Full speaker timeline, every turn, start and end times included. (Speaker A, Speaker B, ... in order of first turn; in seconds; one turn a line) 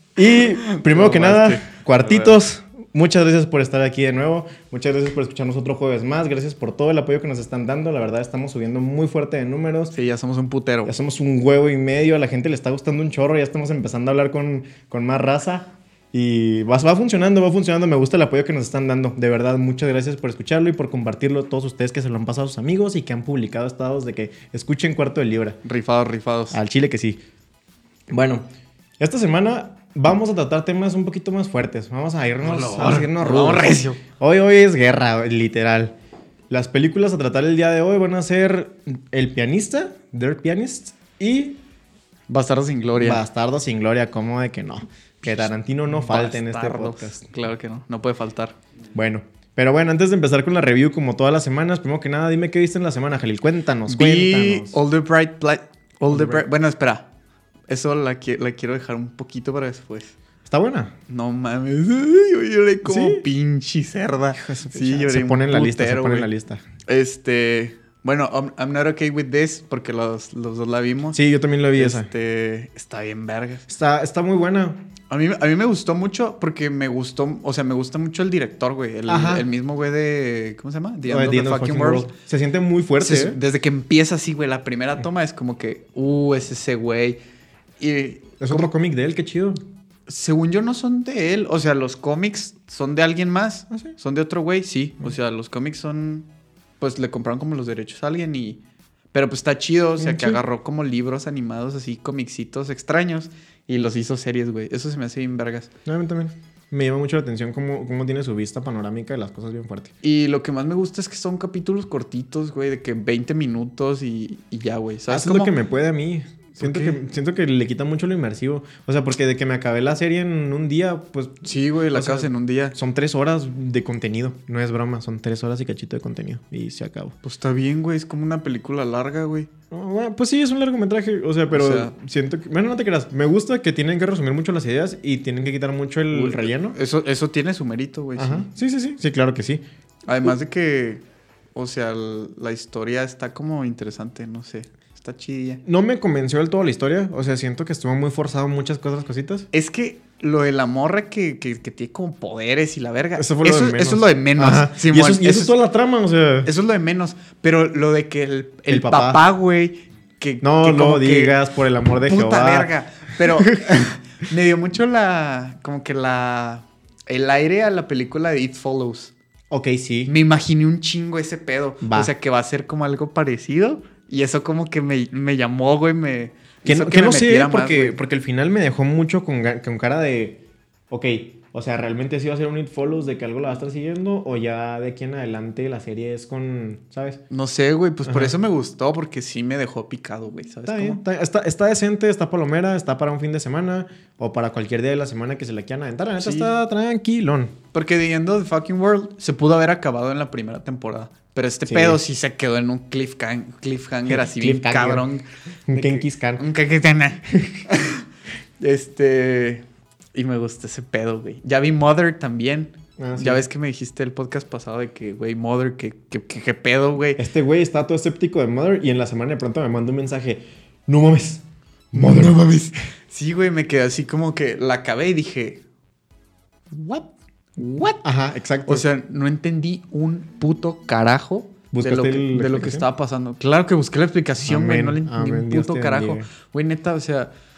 Speaker A: 0.2-9.9
Speaker B: 0.6-2.4
Speaker B: 9.9-10.9
Speaker A: 10.8-25.6
Speaker B: 25.6-26.6
Speaker A: 26.5-27.2
Speaker A: 28.1-28.5
Speaker A: 29.0-36.0
Speaker B: 32.4-34.0
Speaker A: 36.5-41.6
Speaker B: 42.3-43.2
Speaker A: 43.0-47.2
Speaker B: 45.9-48.6
Speaker A: 48.9-54.8
Speaker B: 53.9-57.1
Speaker A: 56.1-56.4
Speaker B: 57.7-60.1
Speaker A: 60.5-60.9
Speaker B: 61.1-66.3
Speaker A: 62.8-63.2
Speaker A: 64.3-66.6
Speaker B: 66.8-71.2
Speaker A: 71.1-72.1
Speaker B: 71.7-73.7
Speaker A: 73.7-74.8
Speaker B: 75.1-82.1
Speaker A: 79.1-79.5
Speaker A: 81.1-83.4
Speaker B: 83.0-87.2
Speaker B: 87.8-88.7
Speaker A: 88.4-89.6
Speaker B: 90.1-96.3
Speaker B: 96.8-98.6
Speaker B: 99.1-105.7
Speaker A: 100.0-100.4
Speaker A: 105.9-109.9
Speaker B: 110.0-115.5
Speaker A: 115.1-127.2
Speaker B: 116.6-117.0
Speaker B: 121.4-122.8
Speaker B: 127.2-129.5
Speaker A: 129.7-136.8
Speaker B: 131.5-131.9
Speaker B: 136.1-138.5
Speaker A: 138.2-139.6
Speaker B: 140.1-141.0
Speaker B: 141.6-145.6
Speaker A: 145.7-149.5
Speaker B: 149.5-155.5
Speaker A: 153.2-156.5
Speaker B: 156.4-161.4
Speaker A: 158.7-159.2
Speaker A: 160.4-162.7
Speaker B: 162.1-169.1
Speaker A: 169.5-170.1
Speaker B: 170.1-178.0
Speaker A: 171.8-172.1
Speaker A: 176.7-187.2
Speaker B: 187.3-191.0
Speaker A: 188.1-188.4
Speaker A: 190.7-197.5
Speaker B: 196.2-196.5
Speaker B: 197.7-208.0
Speaker A: 201.7-202.0
Speaker A: 204.1-205.1
Speaker A: 205.7-206.4
Speaker A: 207.3-207.7
Speaker B: 208.6-217.2
Speaker A: 213.0-213.4
Speaker A: 217.2-222.4
Speaker B: 221.9-225.6
Speaker B: 226.7-228.0
Speaker A: 228.0-228.9
Speaker B: 228.7-237.3
Speaker A: 231.7-232.8
Speaker A: 234.5-236.3